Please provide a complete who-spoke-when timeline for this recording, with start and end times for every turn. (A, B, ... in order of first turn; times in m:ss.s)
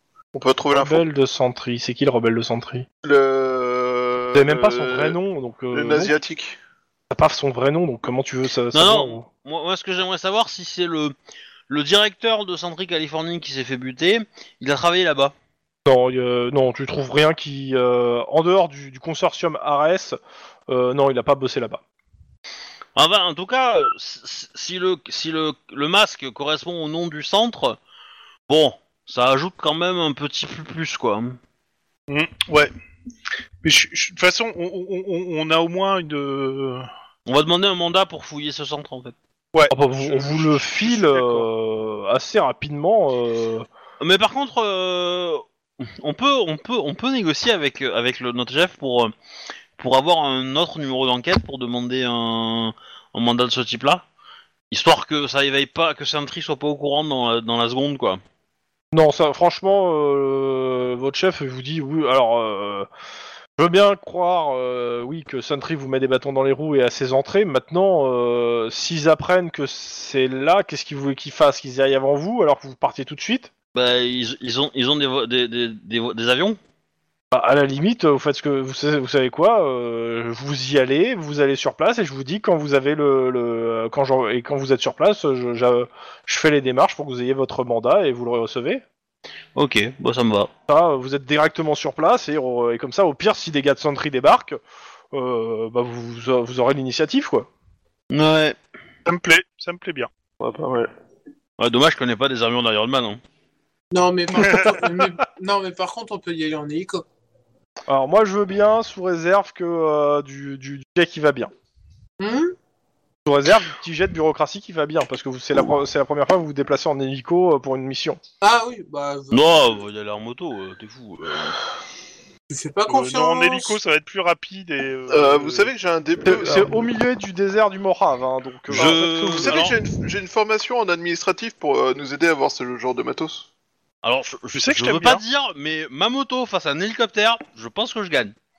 0:00.3-0:01.0 A
0:00.7-0:02.9 B
0:03.0-0:05.2 A
0:04.3-0:06.1 B
0:05.7-0:06.6 A
0:07.1-0:09.2 B
0:08.7-0:11.1 C
0:11.7-0:15.3 C
0:15.8-0:20.2 B
0:20.7-0:21.8 B
0:23.0-0:27.8 C
0:28.5-0:31.4 C
0:32.1-0:32.7 D
0:33.6-0:36.9 D
0:37.2-0:39.2 C
0:39.5-0:41.5 D
0:39.7-0:43.7 B
0:44.0-0:49.1 C
0:49.8-0:54.0 C
0:54.7-0:58.2 C
0:58.9-1:02.9 B
1:03.6-1:13.5 B
1:13.7-1:16.6 C
1:17.3-1:28.8 B
1:29.5-1:30.5 C
1:30.7-1:34.6 B
1:35.1-1:37.5 B
1:38.1-1:38.6 C
1:39.0-1:40.1 D
1:40.4-1:40.9 A
1:41.6-1:43.2 C
1:43.9-1:47.0 E
1:47.9-1:51.5 B
1:52.2-1:52.5 E
1:53.2-1:58.2 B
1:58.4-1:59.8 E
1:59.3-2:01.6 C
2:02.5-2:03.8 E
2:02.9-2:05.7 D
2:05.1-2:06.8 A
2:06.2-2:09.6 B
2:08.7-2:09.8 C
2:08.8-2:13.4 A
2:14.0-2:18.3 C
2:14.5-2:15.2 D